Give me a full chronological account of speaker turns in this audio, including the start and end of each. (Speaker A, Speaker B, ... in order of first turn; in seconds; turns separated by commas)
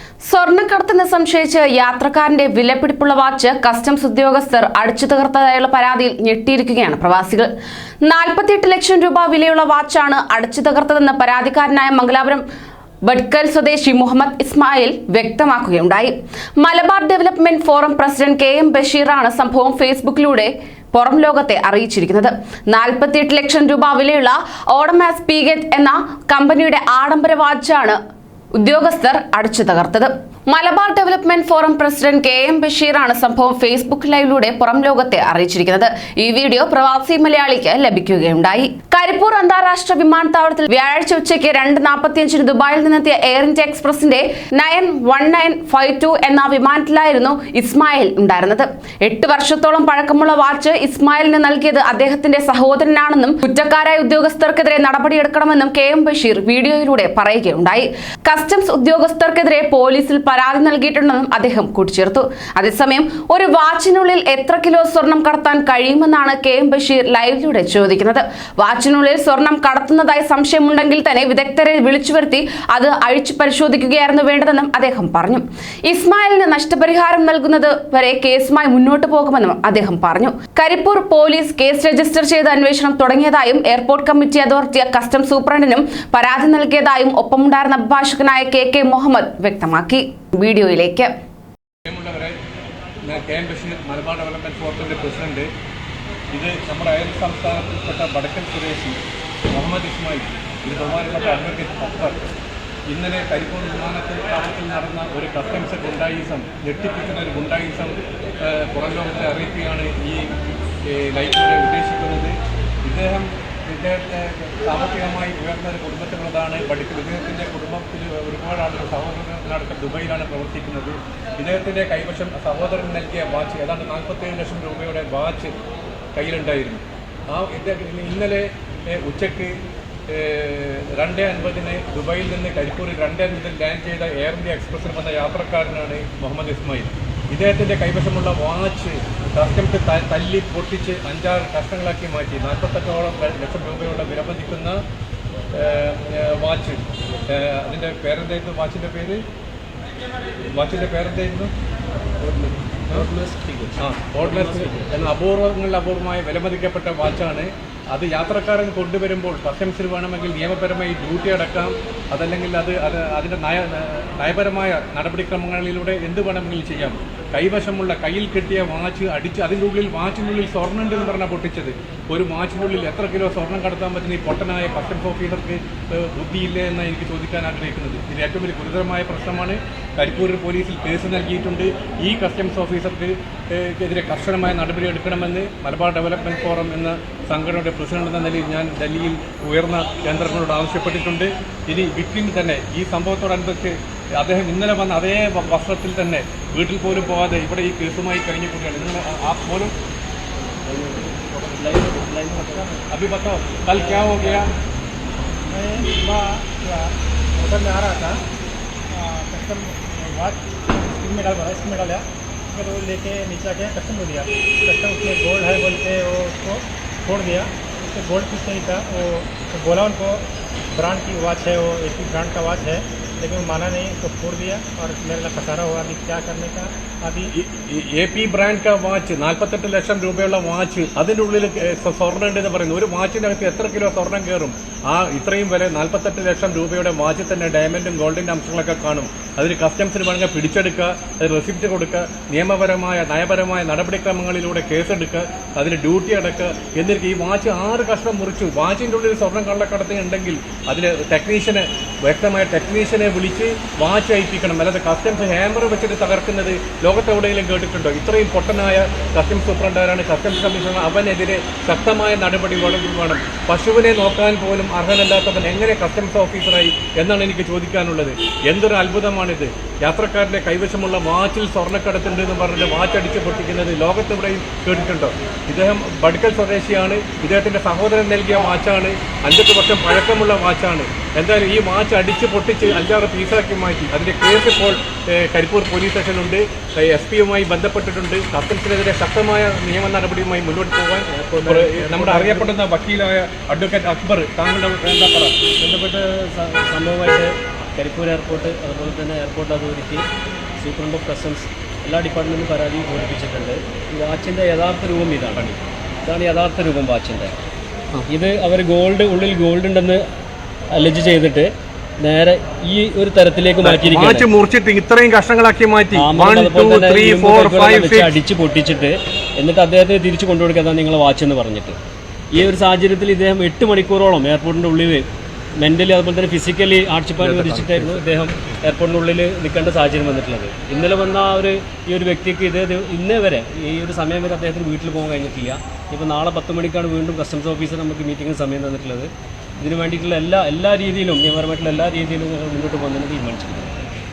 Speaker A: 0.3-7.5, Speaker A: 8.0-12.4, Speaker A: 13.1-28.0, Speaker A: 28.6-91.1, Speaker B: 91.9-92.4, Speaker B: 93.0-95.5, Speaker B: 96.3-99.0, Speaker B: 99.5-102.2, Speaker B: 102.9-110.3, Speaker B: 110.8-125.5, Speaker B: 126.2-129.5, Speaker B: 130.1-144.8, Speaker B: 145.5-149.2, Speaker B: 150.5-151.5, Speaker C: 152.2-155.0, Speaker B: 153.8-199.7, Speaker C: 200.6-202.7, Speaker B: 202.9-204.5, Speaker C: 203.8-204.1, Speaker D: 205.5-208.2, Speaker D: 208.9-220.2, Speaker D: 220.7-227.3, Speaker B: 227.3-295.4, Speaker C: 291.1-292.5, Speaker C: 295.6-300.1, Speaker C: 300.6-307.3, Speaker C: 308.1-310.0, Speaker C: 310.7-314.3, Speaker B: 313.6-318.2, Speaker C: 315.9-321.8, Speaker C: 322.3-325.1, Speaker C: 325.6-343.8, Speaker B: 327.2-328.1